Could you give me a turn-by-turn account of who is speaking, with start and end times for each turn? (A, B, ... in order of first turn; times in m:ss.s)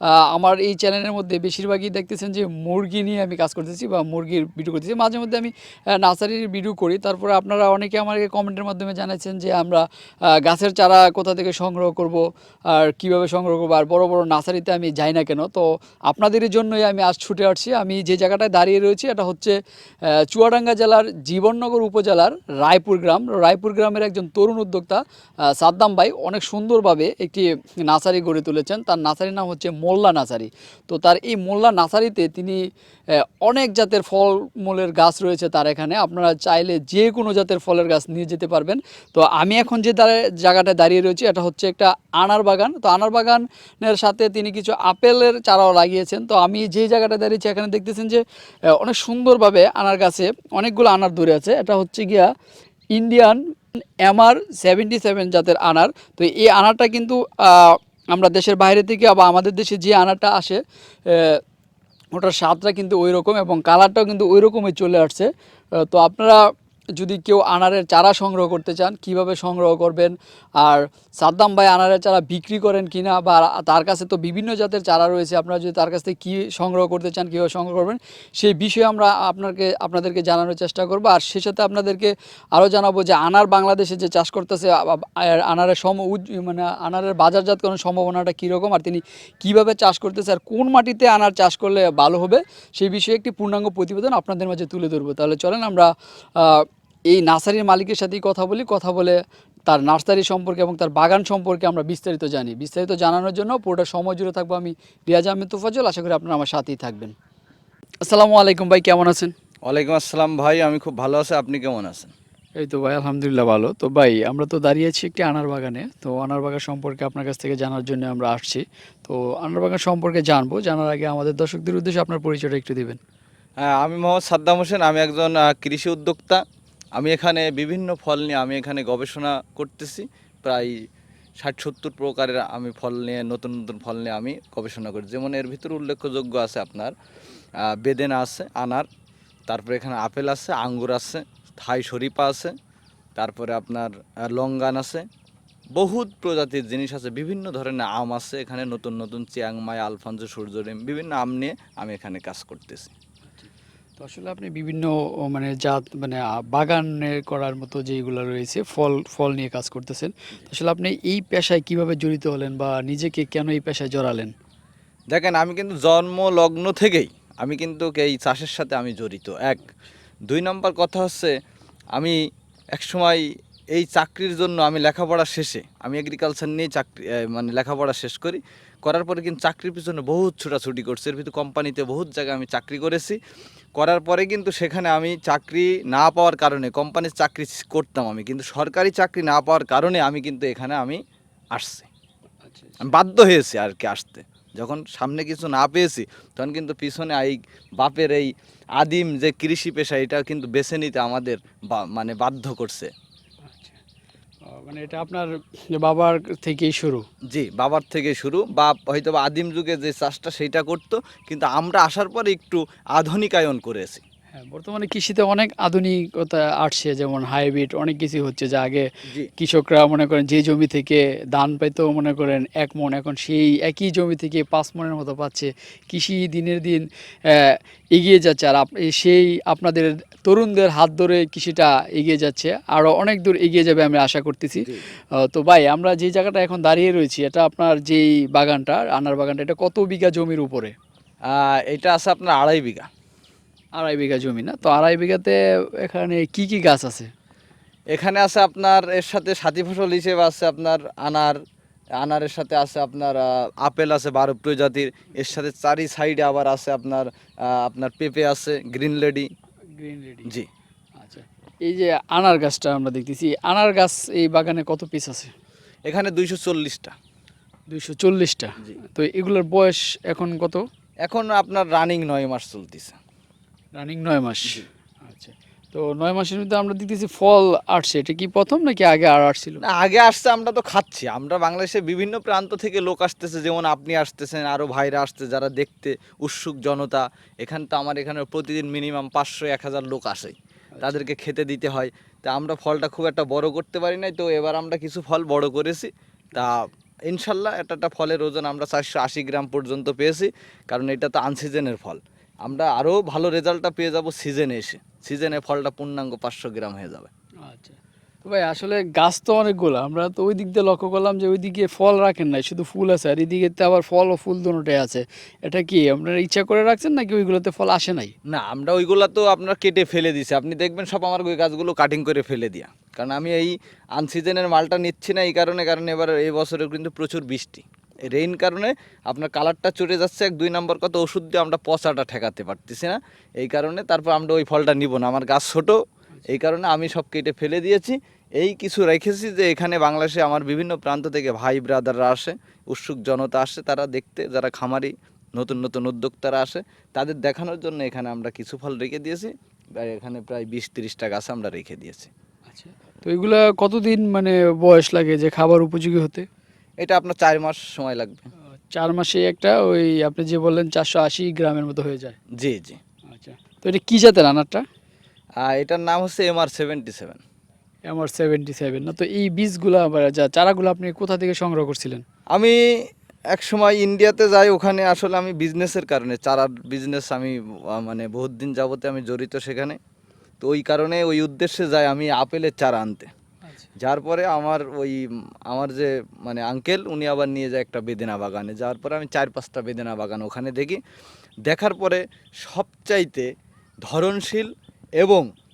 0:00.3-0:09.8 A
0:10.4-0:19.6 A
0:20.2-0:25.0 A
0:25.6-0:52.3 A
0:53.0-0:53.4 A
0:54.0-1:01.4 A
1:02.1-1:06.4 A
1:07.0-1:39.2 A
1:39.7-1:47.2 A
1:48.0-1:49.3 A
1:49.7-1:52.1 B
1:52.6-2:03.0 A
2:03.6-2:06.4 B
2:07.0-2:10.8 B
2:11.4-2:16.9 B
2:17.6-2:18.9 B
2:19.5-2:22.5 B
2:23.2-2:25.0 B
2:25.8-2:32.9 B
2:33.3-2:44.3 A
2:45.1-2:49.7 B
2:50.3-2:51.3 B
2:52.7-3:03.2 B
3:03.8-3:11.0 B
3:11.5-3:11.9 B
3:12.4-3:12.9 A
3:12.8-3:22.9 B
3:23.4-3:23.8 A
3:24.4-3:27.0 A
3:27.3-3:34.0 B
3:34.3-3:38.9 A
3:39.4-3:54.7 A
3:54.6-3:54.8 B
3:55.2-4:00.8 A
4:01.3-4:02.9 B
4:03.8-4:07.1 A
4:07.9-4:11.4 B
4:12.0-4:19.3 B
4:19.8-4:20.4 A
4:21.0-4:25.3 A
4:25.9-4:26.9 B
4:27.7-4:30.6 A
4:31.0-4:33.0 B
4:33.8-4:39.6 A
4:39.6-5:07.1 B
4:50.8-4:51.0 A
5:07.4-5:18.1 A
5:18.3-5:52.1 B
5:52.5-5:56.3 A
5:56.8-5:58.2 B
5:58.5-6:02.2 A
6:02.4-6:02.8 B
6:03.1-6:04.6 A
6:05.4-6:07.2 B
6:07.9-6:12.0 A
6:12.3-6:12.6 B
6:13.3-6:19.8 B
6:20.4-6:23.1 B
6:23.4-6:23.7 A
6:23.8-6:30.8 B
6:31.5-6:33.3 B
6:33.8-6:35.2 B